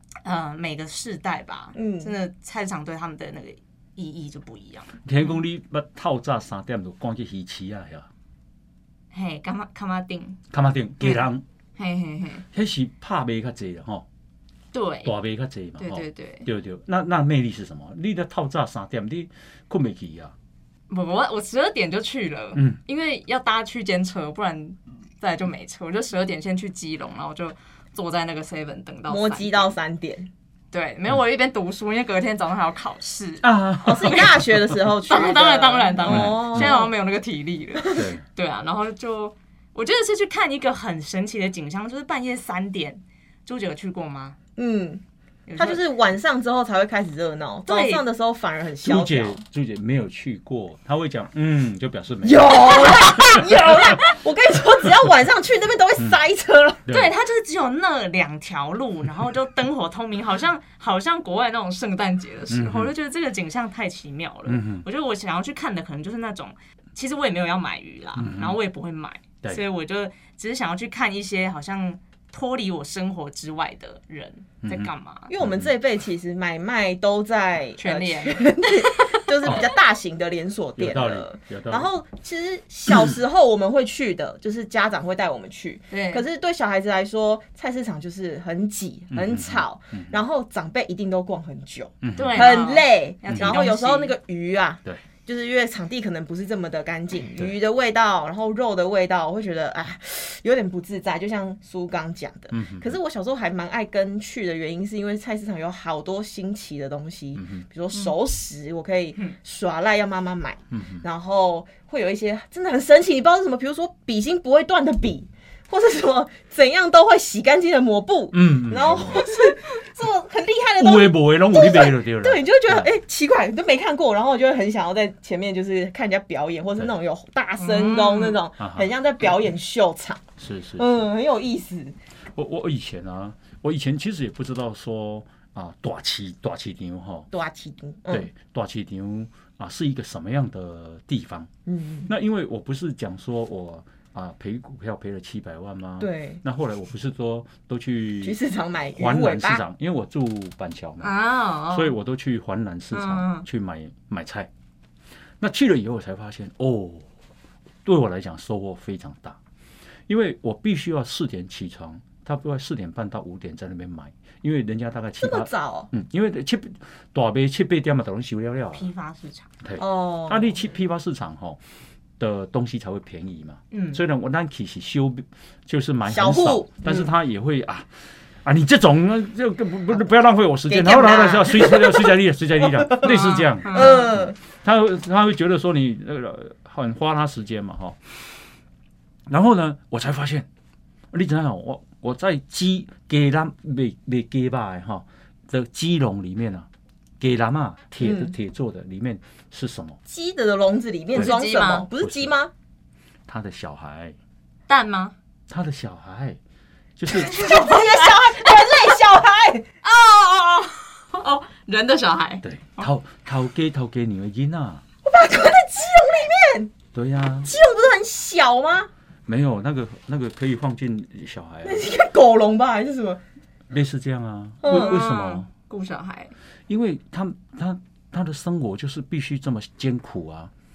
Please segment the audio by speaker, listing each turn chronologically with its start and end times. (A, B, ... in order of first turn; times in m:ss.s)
0:00.2-0:05.3 A
0:01.8-0:02.1 B
0:05.0-0:08.1 C
0:09.1-0:10.4 A
0:10.5-0:11.4 C
0:11.8-0:12.5 A
0:12.5-0:14.0 C
0:14.7-0:15.1 A
0:15.0-0:20.3 C
0:15.8-0:16.5 A
0:20.9-0:29.7 A
0:29.1-0:30.3 B
0:30.7-0:33.5 A
0:33.4-0:34.7 C
0:33.8-0:36.9 B
0:34.0-0:34.3 A
0:35.0-0:44.4 A
0:36.1-0:36.7 C
0:37.9-0:38.2 C
0:44.6-0:45.0 B
0:45.5-0:45.8 A
0:45.6-0:49.4 B
0:47.7-0:48.0 A
0:48.8-0:53.4 C
0:52.2-0:56.9 B
0:56.9-0:57.1 C
0:56.9-1:15.3 A
1:02.5-1:02.9 C
1:04.5-1:04.8 C
1:08.2-1:08.6 C
1:14.6-1:15.7 C
1:15.3-2:10.2 B
1:17.8-1:19.3 A
1:20.8-1:21.9 C
1:25.9-1:26.2 A
1:29.1-1:30.1 C
1:32.0-1:32.5 C
1:32.2-1:34.1 A
1:42.5-1:42.9 C
1:47.4-1:47.6 C
1:50.7-1:51.0 C
1:58.3-1:59.2 C
2:00.8-2:02.9 C
2:07.6-2:08.4 A
2:08.6-2:08.9 C
2:10.4-2:10.9 C
2:10.8-2:12.0 B
2:12.4-2:17.3 C
2:17.3-2:18.3 B
2:18.1-2:21.5 C
2:21.7-2:22.1 B
2:22.1-2:28.4 C
2:26.0-2:26.4 B
2:28.2-2:29.6 B
2:29.0-2:31.1 C
2:31.0-2:31.9 A
2:31.7-2:34.5 C
2:32.9-2:33.5 A
2:35.4-2:37.1 C
2:37.8-2:39.4 C
2:40.1-2:48.9 C
2:45.2-2:45.9 B
2:48.8-2:49.5 A
2:49.6-2:51.6 C
2:49.8-2:50.6 B
2:52.2-2:57.9 C
2:53.7-2:54.0 A
2:56.1-2:57.1 B
2:58.4-3:08.0 C
3:00.7-3:02.1 B
3:02.7-3:03.1 B
3:03.0-3:04.1 A
3:03.7-3:04.4 B
3:09.3-3:10.5 C
3:11.1-3:16.7 C
3:17.2-3:20.0 C
3:18.0-3:18.3 B
3:20.1-3:22.5 B
3:21.2-3:21.9 A
3:22.0-3:22.3 C
3:23.3-3:24.2 C
3:24.7-3:25.1 A
3:25.5-3:26.4 C
3:27.0-3:27.4 C
3:27.2-3:29.7 B
3:27.3-3:28.7 A
3:29.8-3:32.9 A
3:32.4-3:34.8 C
3:35.0-3:36.7 B
3:36.9-3:37.5 C
3:37.4-3:38.9 B
3:39.3-3:41.8 C
3:41.6-3:43.2 B
3:43.7-3:45.5 C
3:44.6-3:44.9 B
3:44.6-3:46.4 A
3:46.7-3:50.5 C